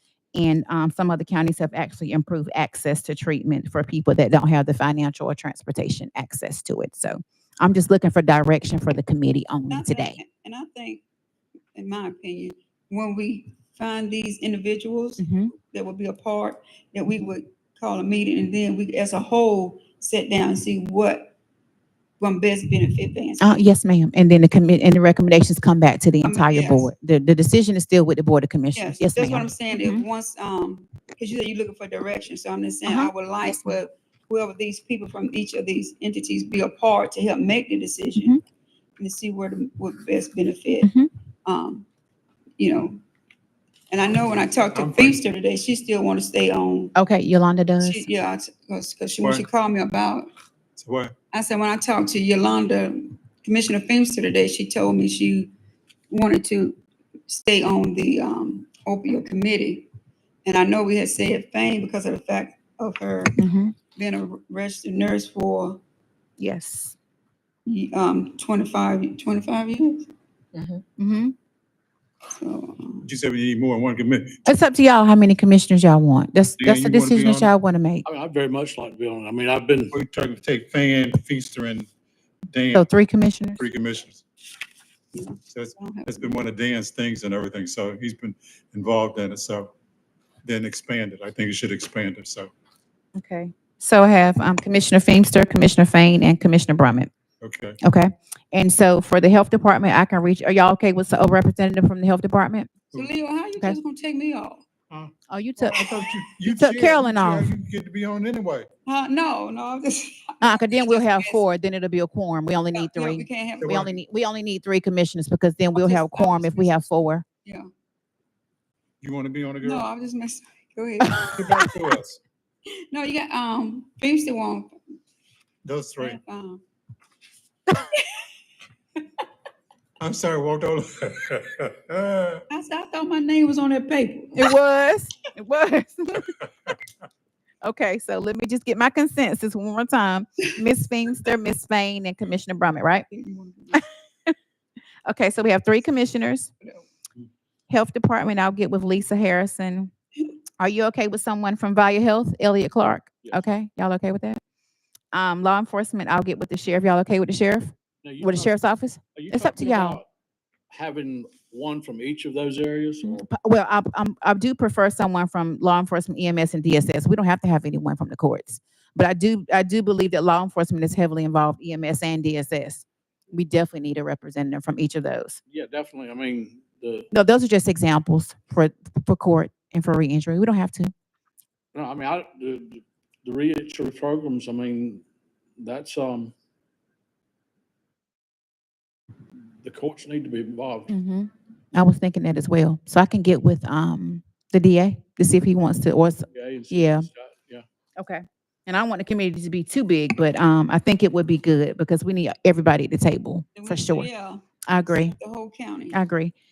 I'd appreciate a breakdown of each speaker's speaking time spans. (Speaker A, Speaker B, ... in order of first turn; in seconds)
Speaker A: 0.3-10.2, 15.2-15.5, 23.4-30.1, 32.9-33.8, 38.1-38.4, 40.8-41.1, 47.0-48.0, 63.4-63.8, 66.4-67.0, 71.0-71.3, 74.5-78.0, 82.7-83.6, 93.2-97.1, 97.8-102.7, 105.3-105.8, 106.5-107.5, 110.4-117.2, 134.4-136.3, 137.6-143.1, 143.7-144.3, 145.1-146.5, 147.7-149.9, 150.6-154.4, 155.1-160.0, 163.0-175.4, 177.1-180.9, 190.9-197.1, 198.0-204.1, 204.7-205.2, 205.9-206.3
Speaker B: 9.7-11.0, 11.8-21.4, 22.2-23.6, 26.2-26.9, 28.8-38.3, 39.0-40.9, 41.5-41.9, 42.6-43.0, 43.9-46.9, 47.8-50.3, 51.3-55.5, 56.1-59.9, 60.5-63.4, 63.9-65.8, 67.7-70.1, 72.3-73.1, 85.1-86.4, 102.9-104.7, 108.9-111.4, 112.7-113.7, 115.7-116.9, 119.6-121.7, 122.9-124.8, 126.0-126.6, 132.5-134.5, 143.1-143.8, 203.6-206.0
Speaker C: 49.2-49.5, 50.8-51.1, 73.0-74.4, 76.6-77.5, 79.9-81.9, 82.5-82.9, 83.6-84.2, 85.5-89.7, 90.4-92.5, 97.4-97.8, 105.6-108.7, 113.6-113.9, 119.0-119.9, 121.1-122.2, 125.7-126.2, 130.0-132.4
Speaker D: 78.0-80.0, 158.0-158.6, 159.2-160.1, 160.7-163.3, 175.5-177.1, 181.7-185.0, 185.6-186.3, 189.6-190.9, 196.3-197.6